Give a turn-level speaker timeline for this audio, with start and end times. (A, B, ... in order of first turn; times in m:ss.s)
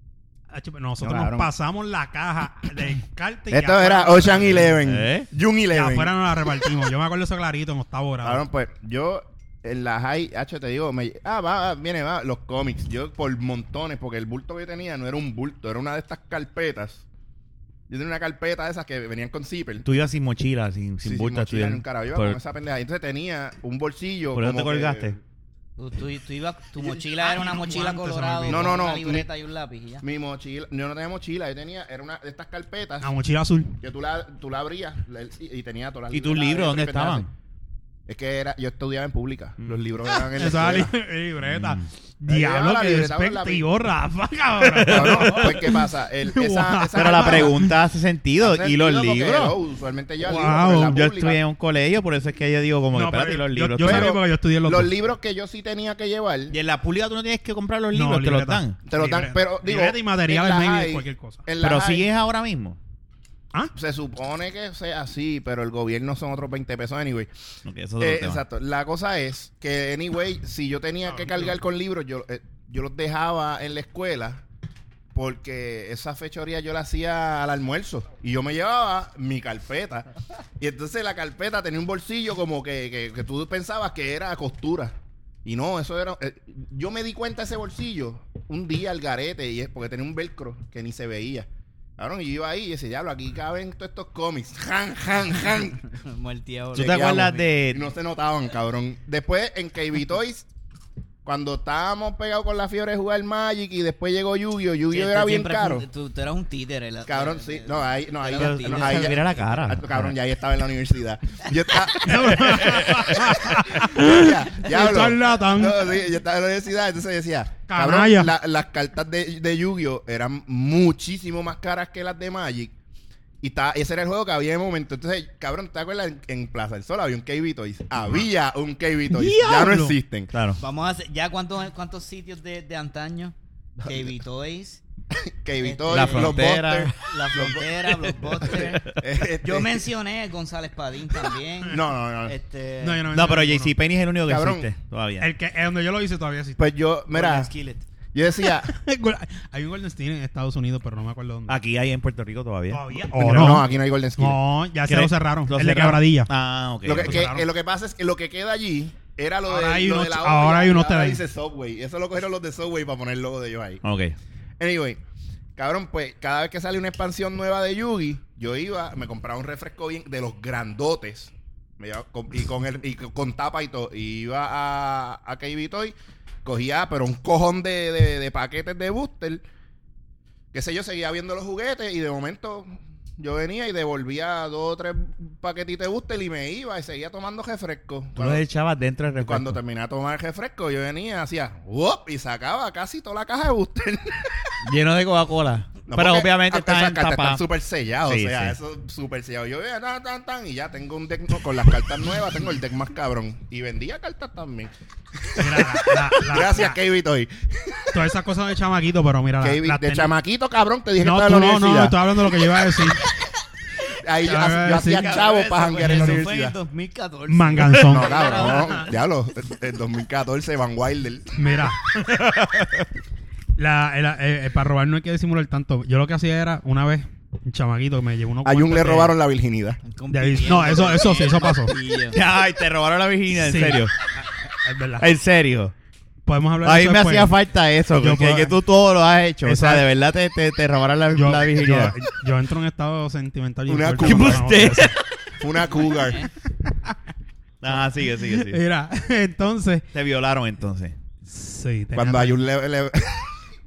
0:00.5-0:04.8 A
0:01.0-0:01.5 B
0:03.5-0:06.1 B
0:04.8-0:05.3 C
0:05.7-0:08.4 A
0:08.2-0:17.0 B
0:17.9-0:19.9 B
0:19.8-0:22.4 C
0:21.0-0:25.1 B
0:24.3-0:25.2 C
0:25.8-0:30.0 D
0:26.9-0:28.8 A
0:28.4-0:29.3 B
0:30.0-0:33.1 B
0:33.0-0:33.8 A
0:33.8-0:37.3 B
0:36.1-0:37.3 C
0:38.1-0:40.9 B
0:40.2-0:47.8 A
0:41.4-0:41.8 C
0:42.2-0:43.6 B
0:44.7-0:47.6 B
0:44.7-0:45.5 C
0:46.9-0:49.6 C
0:48.4-0:51.4 B
0:50.2-0:51.1 A
0:50.8-0:54.1 C
0:52.9-0:54.9 A
0:53.8-0:56.5 B
0:56.5-0:58.8 C
0:57.9-1:01.5 A
0:58.8-1:02.1 B
1:01.6-1:02.8 C
1:03.7-1:07.3 B
1:07.6-1:08.4 C
1:08.0-1:14.4 B
1:11.1-1:11.5 A
1:15.1-1:20.1 B
1:20.6-1:35.9 B
1:35.9-1:37.3 D
1:36.7-1:37.9 C
1:36.8-1:40.5 B
1:41.2-1:45.8 B
1:44.9-1:49.2 D
1:47.0-2:02.7 B
1:48.3-1:50.1 C
1:51.8-1:56.0 A
1:52.6-1:53.3 C
1:57.7-1:58.3 A
2:03.4-2:10.3 B
2:09.1-2:09.9 A
2:10.3-2:10.6 C
2:10.6-2:14.8 D
2:13.8-2:14.1 B
2:15.1-2:19.8 B
2:15.6-2:16.4 D
2:15.9-2:17.0 C
2:17.0-2:18.8 D
2:18.4-2:19.0 C
2:19.4-2:23.0 D
2:21.7-2:22.4 B
2:22.8-2:23.7 A
2:23.1-2:25.3 C
2:24.2-2:24.7 B
2:25.2-2:26.7 A
2:26.6-2:27.5 B
2:27.1-2:27.8 D
2:28.1-2:28.7 B
2:28.4-2:31.6 A
2:31.5-2:33.6 C
2:32.7-2:36.3 A
2:33.2-2:34.4 B
2:34.8-2:37.3 C
2:36.8-2:43.8 B
2:37.0-2:37.5 A
2:39.5-2:41.2 A
2:43.8-2:44.2 C
2:44.6-2:45.0 B
2:45.6-2:59.4 B
3:00.5-3:08.4 B
3:08.2-3:09.6 C
3:09.2-3:14.6 B
3:14.6-3:17.4 C
3:15.9-3:28.0 B
3:18.0-3:18.6 C
3:25.4-3:26.8 A
3:27.9-3:30.1 A
3:29.4-3:32.0 B
3:31.0-3:33.0 A
3:34.0-3:36.6 B
3:34.2-3:36.3 A
3:35.0-3:35.9 C
3:35.6-3:38.9 D
3:37.3-3:38.8 A
3:37.9-3:41.7 B
3:41.4-3:41.9 A
3:41.9-3:42.9 C
3:43.6-3:49.1 A
3:48.4-3:49.8 B
3:49.8-3:52.2 D
3:50.1-3:51.7 A
3:52.1-3:53.9 C
3:53.3-3:55.1 A
3:55.0-3:55.7 C
3:56.2-3:57.4 A
3:56.6-4:02.0 C
3:58.0-3:58.6 A
3:59.4-3:59.8 A
4:01.1-4:05.0 A
4:03.7-4:04.8 B
4:04.0-4:05.1 C
4:05.4-4:06.2 B
4:05.6-4:06.3 D
4:07.6-4:08.6 C
4:08.1-4:09.8 A
4:09.9-4:10.9 C
4:11.3-4:12.4 A
4:11.9-4:13.4 B